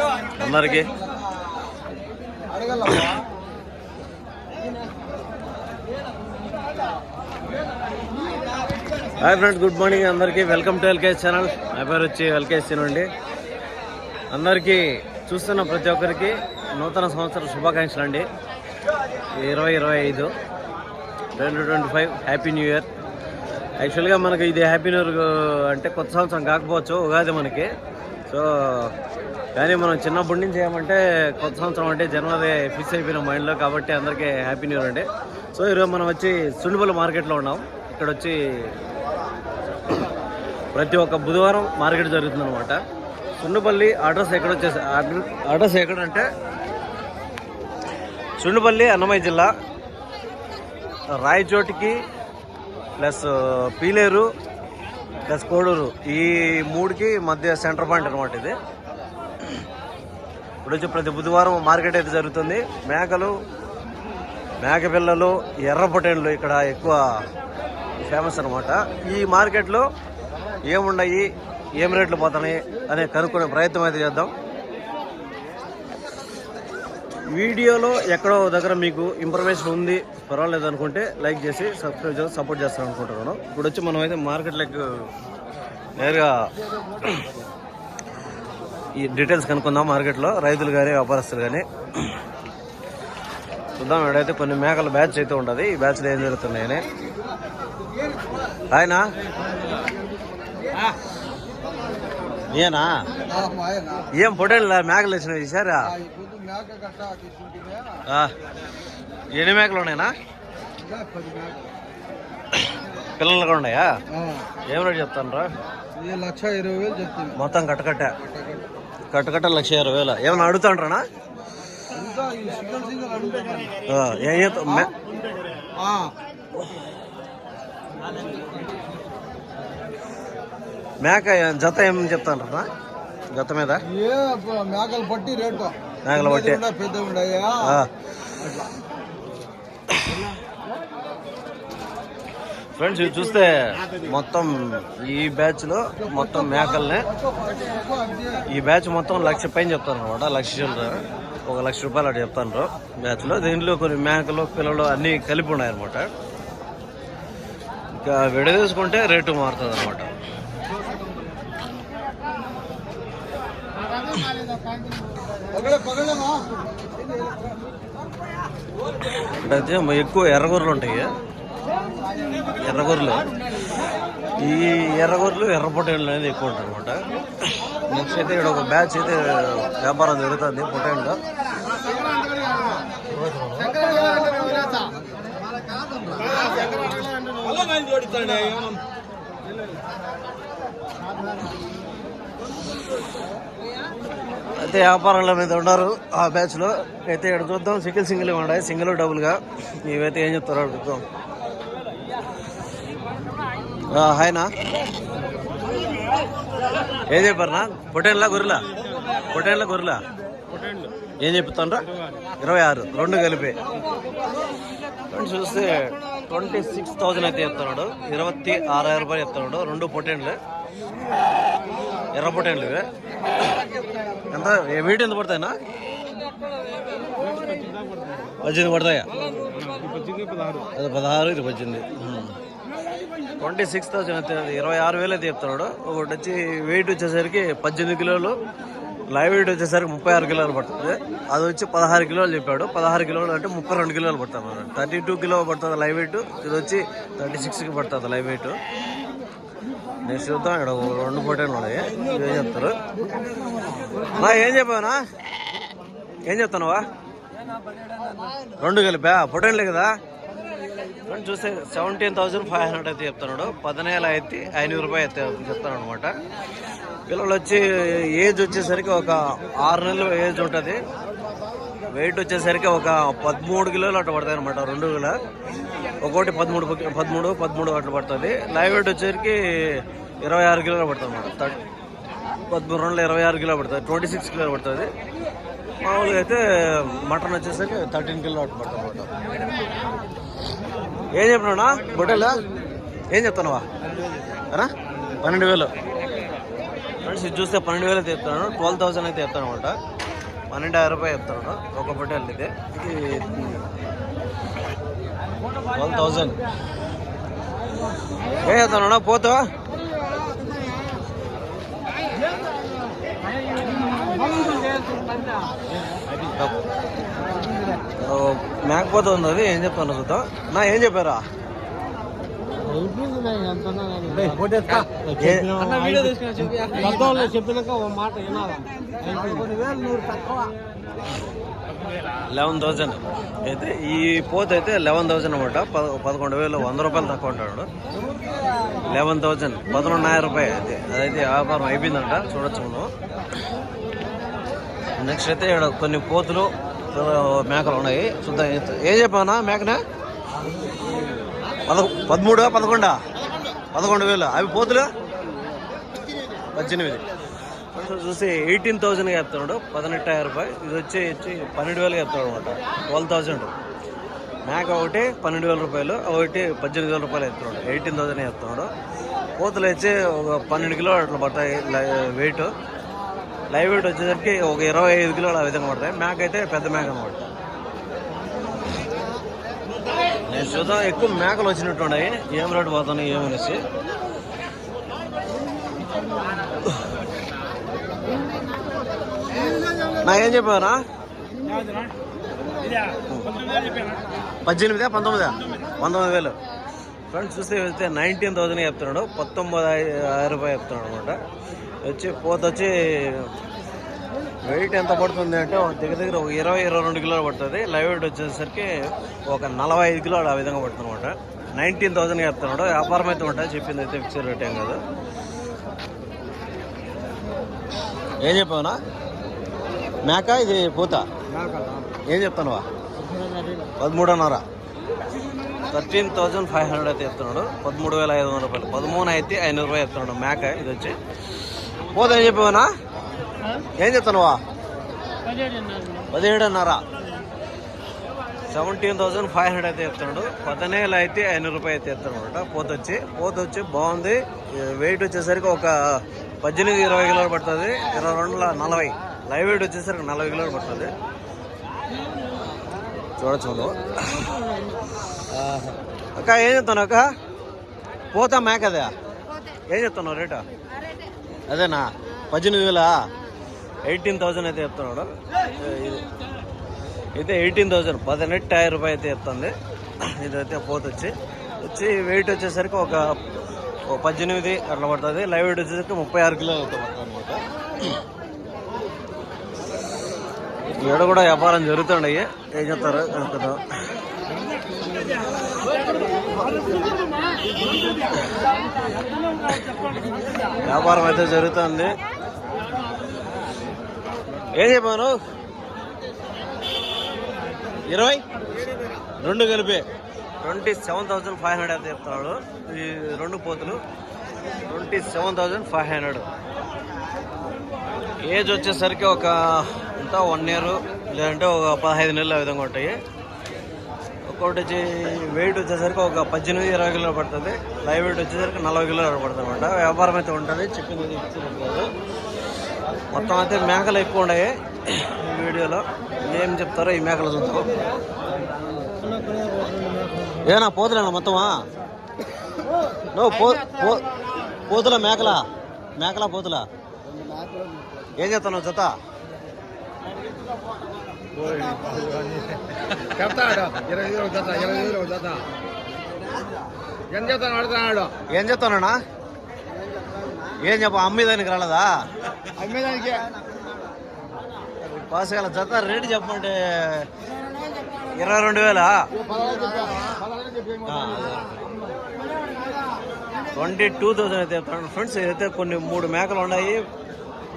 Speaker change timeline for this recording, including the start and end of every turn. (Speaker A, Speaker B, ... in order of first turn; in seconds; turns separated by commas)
Speaker A: 0.3-0.9, Speaker A: 9.2-13.1, Speaker A: 14.3-18.3, Speaker A: 19.3-20.3, Speaker A: 21.4-22.9, Speaker A: 23.8-27.7, Speaker A: 28.3-28.9, Speaker A: 29.6-38.8, Speaker A: 40.7-42.8, Speaker A: 43.4-46.3, Speaker A: 48.4-49.5, Speaker A: 51.1-52.0, Speaker A: 53.0-54.3, Speaker A: 55.3-58.6, Speaker A: 60.6-63.4, Speaker A: 64.6-67.0, Speaker A: 68.0-69.8, Speaker A: 70.7-74.3, Speaker A: 77.3-85.1, Speaker A: 86.0-86.5, Speaker A: 89.0-92.2, Speaker A: 93.8-96.8, Speaker A: 98.7-99.1, Speaker A: 102.5-103.0, Speaker B: 103.4-103.9, Speaker A: 104.1-106.0, Speaker B: 106.1-107.8, Speaker A: 108.1-108.3, Speaker A: 109.3-110.2, Speaker B: 110.9-111.5, Speaker A: 113.2-113.9, Speaker A: 114.7-115.5, Speaker B: 116.0-117.3, Speaker A: 117.3-118.2, Speaker A: 119.1-121.0, Speaker B: 121.9-123.8, Speaker A: 123.9-124.9, Speaker B: 125.8-126.1, Speaker A: 131.0-132.7, Speaker A: 133.3-133.9, Speaker B: 134.0-135.8, Speaker A: 136.1-136.7, Speaker B: 136.7-137.5, Speaker A: 137.5-137.9, Speaker A: 139.9-140.3, Speaker A: 142.8-147.1, Speaker A: 148.5-156.1, Speaker A: 157.9-160.1, Speaker B: 165.5-166.5, Speaker A: 169.2-171.1, Speaker A: 172.6-173.2, Speaker A: 174.4-181.2, Speaker B: 183.6-184.9, Speaker B: 187.0-188.8, Speaker A: 194.6-201.0, Speaker A: 203.9-204.5, Speaker A: 207.1-208.7, Speaker A: 209.3-210.0, Speaker A: 211.2-211.9, Speaker A: 212.4-213.6, Speaker A: 215.1-220.4, Speaker A: 222.1-222.9, Speaker A: 224.3-225.6, Speaker B: 227.2-228.0, Speaker A: 228.4-229.1, Speaker B: 229.7-230.6, Speaker A: 230.8-232.3, Speaker A: 233.4-238.3, Speaker A: 239.1-248.6, Speaker A: 250.0-252.8, Speaker A: 254.2-255.0, Speaker A: 256.3-256.8, Speaker A: 258.6-259.9, Speaker A: 261.1-266.1, Speaker A: 267.1-270.8, Speaker A: 271.9-275.2, Speaker A: 276.0-281.6, Speaker A: 282.5-284.9, Speaker A: 285.8-289.1, Speaker A: 291.1-292.4, Speaker A: 293.1-293.7, Speaker A: 294.5-295.7, Speaker A: 297.0-299.8, Speaker A: 300.5-303.7, Speaker A: 305.8-306.4, Speaker A: 308.4-309.4, Speaker B: 313.6-315.5, Speaker A: 318.0-321.3, Speaker B: 322.6-330.5, Speaker A: 325.2-325.6, Speaker A: 332.3-337.7, Speaker A: 338.8-342.9, Speaker A: 345.0-349.8, Speaker A: 351.7-353.0, Speaker A: 353.7-354.9, Speaker A: 356.5-357.0, Speaker A: 357.7-363.5, Speaker A: 364.4-368.7, Speaker A: 369.4-372.5, Speaker A: 373.5-377.3, Speaker A: 380.3-383.6, Speaker A: 390.0-390.8, Speaker A: 394.4-396.4, Speaker A: 397.1-401.2, Speaker A: 401.9-403.4, Speaker A: 404.4-414.8, Speaker A: 418.2-418.8, Speaker A: 420.1-421.1, Speaker A: 422.1-422.6, Speaker A: 423.8-424.4, Speaker A: 425.7-431.0, Speaker A: 431.9-432.7, Speaker A: 433.8-434.4, Speaker A: 436.1-436.8, Speaker A: 438.5-450.9, Speaker A: 453.2-454.3, Speaker A: 455.3-457.0, Speaker A: 458.1-458.9, Speaker A: 459.7-460.4, Speaker A: 461.5-463.1, Speaker A: 463.8-466.1, Speaker A: 467.1-473.1, Speaker A: 473.9-477.9, Speaker A: 480.8-483.6, Speaker A: 490.6-491.9, Speaker A: 494.5-495.1, Speaker A: 497.9-498.2, Speaker A: 499.2-499.9, Speaker A: 500.4-503.8, Speaker A: 504.6-506.3, Speaker A: 508.2-513.0, Speaker A: 514.3-521.9, Speaker A: 523.1-527.7, Speaker B: 529.0-530.1, Speaker A: 530.4-531.6, Speaker A: 533.1-534.0, Speaker A: 534.7-535.5, Speaker A: 536.0-536.7, Speaker A: 538.2-539.0, Speaker B: 541.4-545.5, Speaker B: 547.1-548.2, Speaker A: 548.3-549.0, Speaker A: 550.6-552.0, Speaker B: 552.6-553.3, Speaker A: 554.8-557.1, Speaker A: 558.0-559.1, Speaker B: 559.2-560.8, Speaker A: 560.9-561.6, Speaker A: 563.5-566.8